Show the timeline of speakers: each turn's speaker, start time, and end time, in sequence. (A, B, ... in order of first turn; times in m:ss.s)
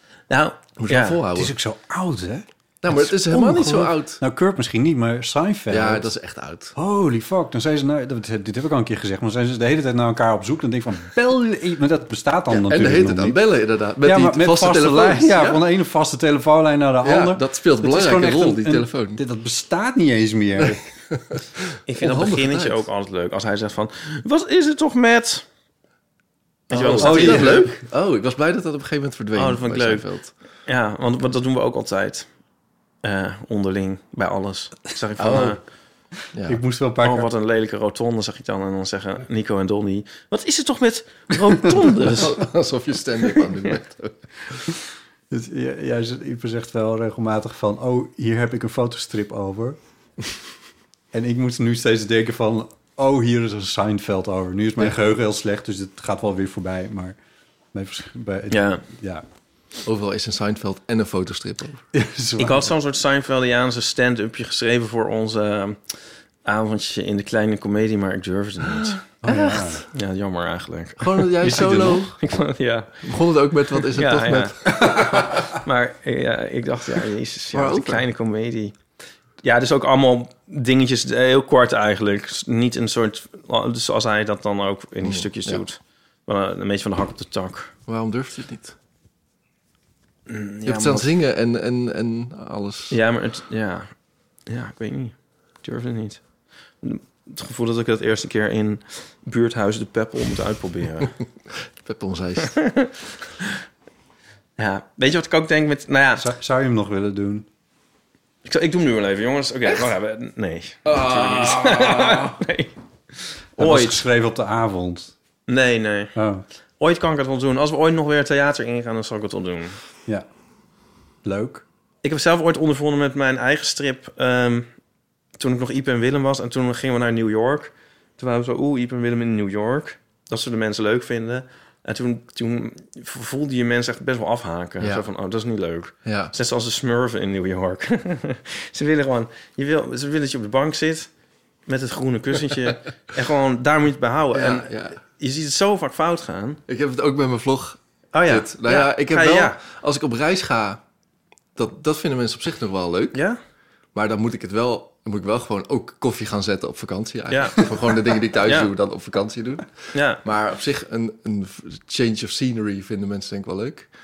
0:00.3-0:01.2 A
0:00.8-0:01.6 B
0:01.3-0:06.1 C
0:02.8-0:04.2 B
0:05.7-0:06.8 B
0:06.8-0:13.4 C
0:12.5-0:15.6 B
0:14.0-0:20.8 C
0:17.0-0:19.2 B
0:20.6-0:22.9 B
0:21.9-0:25.4 A
0:26.7-0:27.7 A
0:26.7-0:30.3 B
0:27.0-0:27.8 C
0:29.4-0:30.1 A
0:30.7-0:32.3 A
0:33.0-0:35.6 A
0:35.2-0:35.6 B
0:36.3-0:36.6 B
0:36.5-0:37.3 C
0:37.0-0:42.4 A
0:42.0-0:44.6 B
0:45.3-0:49.8 C
0:51.1-0:57.2 C
0:57.7-0:59.2 C
0:58.5-0:58.8 A
0:59.8-1:01.8 B
1:01.9-1:02.7 C
1:02.4-1:05.8 A
1:06.4-1:09.0 A
1:08.7-1:09.8 B
1:09.2-1:09.8 C
1:09.9-1:13.1 A
1:11.0-1:12.2 B
1:11.4-1:12.0 C
1:13.0-1:15.3 B
1:13.8-1:18.8 A
1:17.5-1:18.0 B
1:19.4-1:27.7 A
1:25.0-1:25.6 B
1:27.9-1:28.8 B
1:30.3-1:31.1 A
1:30.6-1:33.0 B
1:32.9-1:33.9 A
1:34.5-1:36.2 A
1:36.8-1:41.2 A
1:41.8-1:42.6 B
1:42.5-1:42.9 A
1:44.6-1:46.2 A
1:46.2-1:47.5 C
1:48.4-1:54.0 A
1:50.8-1:52.4 B
1:53.6-1:55.1 C
1:55.5-1:56.1 A
1:56.2-1:56.4 C
1:56.8-1:59.8 A
2:01.2-2:01.6 C
2:02.0-2:04.7 A
2:05.4-2:21.1 A
2:14.8-2:15.1 B
2:16.0-2:16.4 B
2:21.7-2:26.6 A
2:24.3-2:25.0 B
2:26.7-2:30.8 B
2:28.1-2:29.6 A
2:31.6-2:33.2 B
2:33.9-2:39.7 B
2:37.3-2:37.8 A
2:38.4-2:38.7 A
2:39.9-2:40.2 A
2:40.2-2:43.9 B